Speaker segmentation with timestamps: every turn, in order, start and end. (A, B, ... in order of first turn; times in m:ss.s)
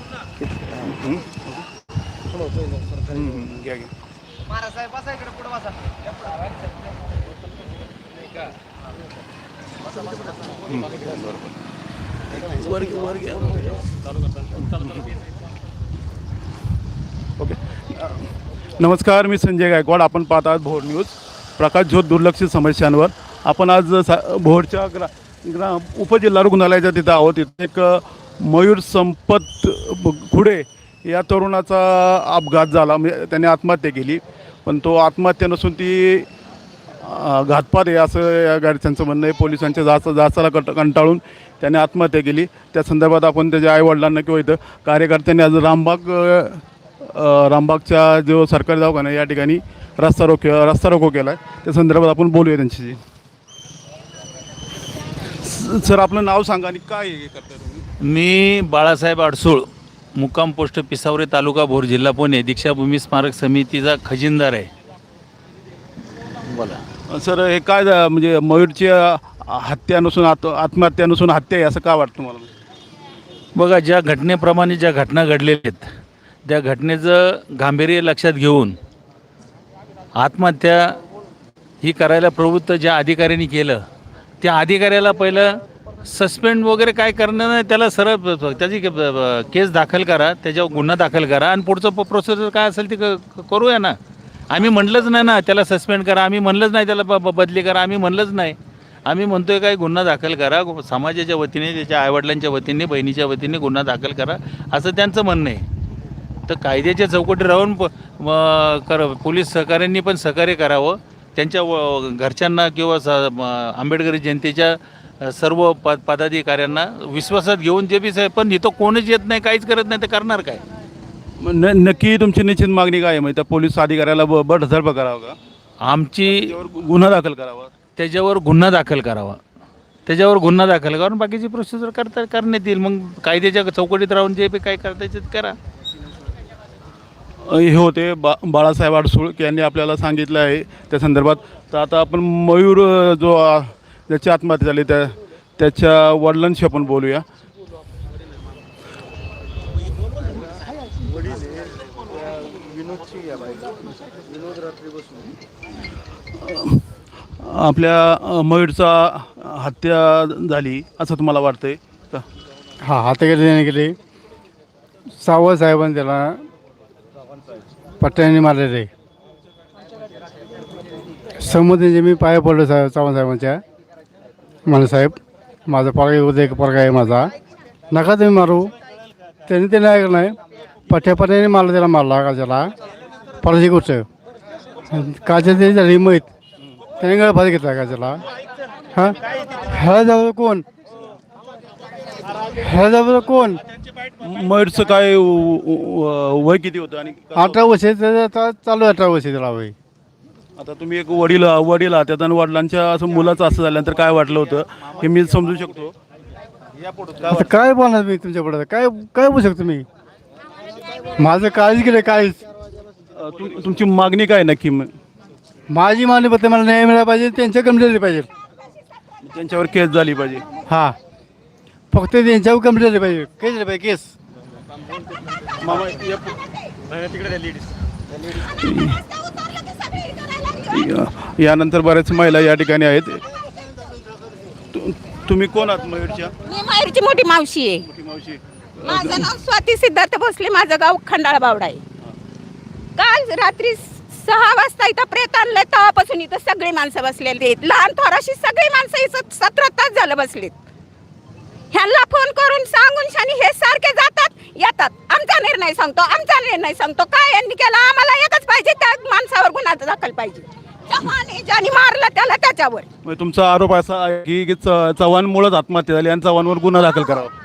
0:00.7-0:01.7 A
0:03.1-0:03.9 A
0:10.7-0:11.5 A
0:12.4-0:13.8 A
0:14.6-0:15.0 A
0:17.4-0:18.2 A
0:18.8-0:36.3 A
0:37.0-0:53.0 A
0:55.4-0:57.9 A
0:58.0-1:04.7 B
1:06.5-1:06.8 B
1:07.1-1:12.5 A
1:13.6-1:15.9 B
1:16.5-1:18.8 B
1:20.2-1:21.0 B
1:21.8-1:23.8 B
1:24.4-1:25.5 B
1:26.1-1:34.0 B
1:34.5-1:45.6 B
1:46.5-2:00.6 B
2:01.4-2:05.4 A
2:05.8-2:06.6 B
2:06.3-2:07.7 A
2:08.0-2:09.4 B
2:10.1-2:15.6 B
2:17.5-2:27.2 A
2:36.4-2:36.8 A
2:37.4-2:42.2 A
2:42.8-2:44.0 C
2:45.2-2:46.4 C
2:48.0-2:48.9 C
2:51.4-2:53.6 C
2:54.7-2:57.3 C
2:57.9-2:58.7 C
2:59.5-3:00.4 C
3:00.9-3:02.7 C
3:03.4-3:04.1 C
3:04.9-3:06.3 C
3:07.0-3:08.2 C
3:09.0-3:10.6 C
3:12.6-3:13.6 C
3:14.2-3:17.7 A
3:17.4-3:19.7 C
3:20.6-3:26.0 A
3:27.1-3:27.6 A
3:27.3-3:29.9 C
3:31.2-3:32.4 C
3:33.2-3:34.9 A
3:35.7-3:38.3 C
3:39.2-3:40.5 A
3:40.7-3:41.0 C
3:41.9-3:44.1 C
3:45.6-3:46.4 A
3:48.6-3:49.0 A
3:49.1-3:50.6 D
3:50.7-3:53.2 A
3:54.7-3:56.3 A
3:56.5-3:57.8 D
3:57.8-3:59.4 A
3:58.8-4:01.8 D
4:03.0-4:10.6 D
4:11.7-4:22.9 D
4:23.0-4:27.3 A